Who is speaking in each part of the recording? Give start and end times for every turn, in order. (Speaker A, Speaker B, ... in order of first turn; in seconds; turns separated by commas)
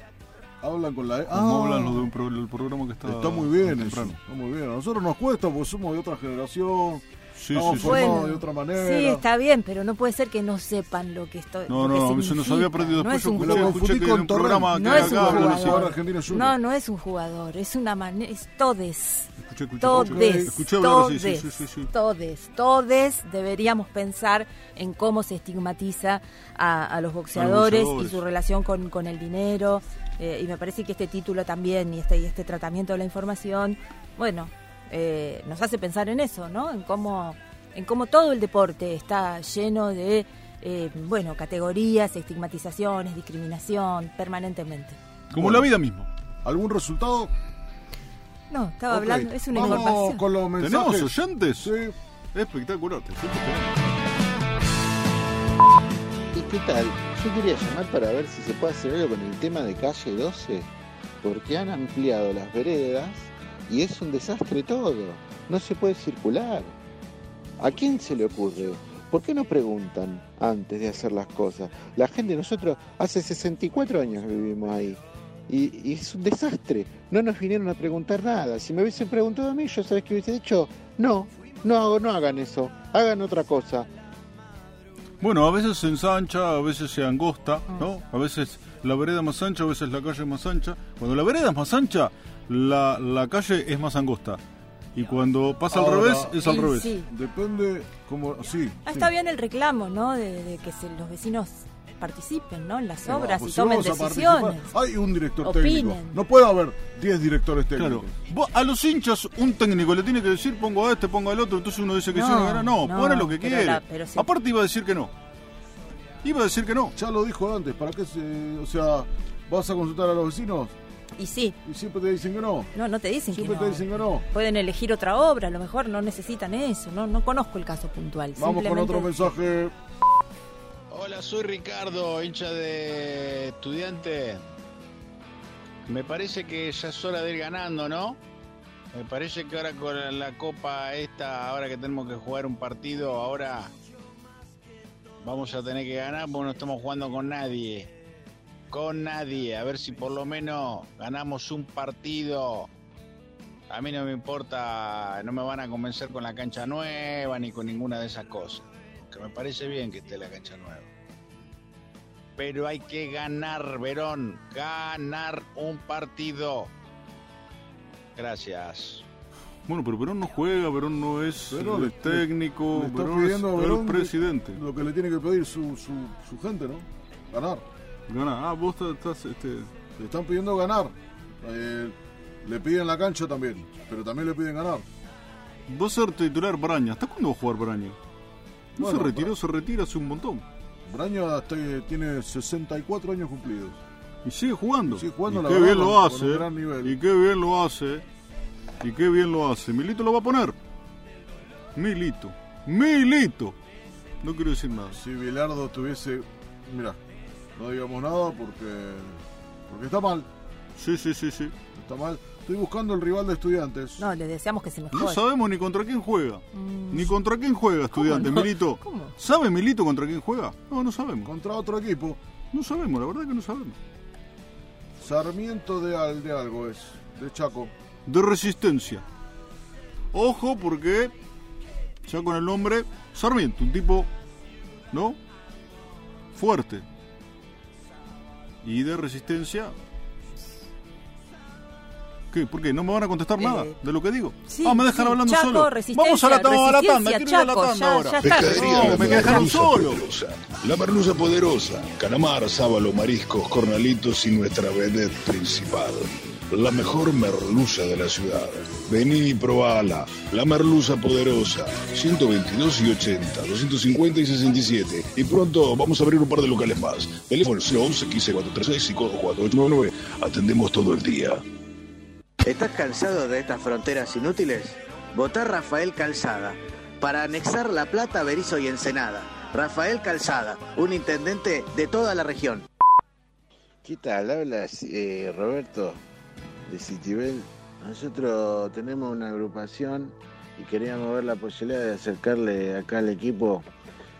Speaker A: 0.6-2.1, Speaker B: 1.3-4.1, Speaker A: 3.0-9.2, Speaker B: 7.3-8.3, Speaker C: 7.6-13.8, Speaker B: 11.7-15.9, Speaker A: 13.4-16.6, Speaker C: 14.7-45.0, Speaker B: 19.4-21.9, Speaker A: 19.9-20.5, Speaker B: 27.3-28.2, Speaker B: 45.3-46.1, Speaker A: 45.3-45.7, Speaker A: 46.4-47.3, Speaker C: 48.5-50.2, Speaker A: 48.9-51.9, Speaker B: 49.5-49.9, Speaker B: 50.6-51.7, Speaker B: 52.3-53.9, Speaker D: 56.3-60.7, Speaker D: 61.2-66.8, Speaker D: 67.6-83.9, Speaker B: 85.2-94.4, Speaker B: 94.9-97.0, Speaker A: 95.7-99.1, Speaker C: 96.4-97.1, Speaker C: 98.8-104.7, Speaker A: 103.0-108.1, Speaker C: 105.4-106.2, Speaker B: 107.7-115.1, Speaker C: 112.1-114.3, Speaker B: 116.2-116.9, Speaker A: 117.0-120.7, Speaker C: 121.2-121.5, Speaker A: 121.6-122.7, Speaker C: 122.7-129.3, Speaker A: 123.3-124.2, Speaker A: 128.4-129.7, Speaker E: 130.9-134.4, Speaker E: 135.9-138.2, Speaker E: 138.9-143.7, Speaker E: 145.2-147.9, Speaker E: 148.7-152.7, Speaker E: 153.7-160.8, Speaker E: 162.4-166.7, Speaker E: 168.2-169.0, Speaker B: 169.7-174.6, Speaker A: 171.5-177.6, Speaker B: 178.1-179.7, Speaker A: 180.0-184.8, Speaker B: 185.7-188.0, Speaker B: 188.8-190.4, Speaker A: 188.8-189.3, Speaker A: 190.8-193.8, Speaker B: 194.2-198.0, Speaker A: 194.8-197.0, Speaker B: 198.8-200.6, Speaker B: 201.8-203.6, Speaker B: 204.2-205.0, Speaker A: 204.9-207.0, Speaker A: 207.6-210.3, Speaker B: 210.8-211.5, Speaker A: 211.7-214.0, Speaker C: 214.0-215.2, Speaker B: 214.9-221.3, Speaker C: 216.5-217.1, Speaker C: 217.9-219.1, Speaker A: 221.2-222.2, Speaker B: 222.5-223.8, Speaker A: 225.0-227.7, Speaker B: 228.1-229.0, Speaker B: 230.1-231.1, Speaker B: 232.0-234.1, Speaker B: 234.9-235.2, Speaker B: 236.3-236.8, Speaker B: 238.6-239.8, Speaker B: 242.3-250.1, Speaker C: 243.4-243.7, Speaker C: 244.5-249.5, Speaker F: 248.2-271.4, Speaker G: 272.4-282.6, Speaker D: 283.8-286.0, Speaker D: 286.7-293.7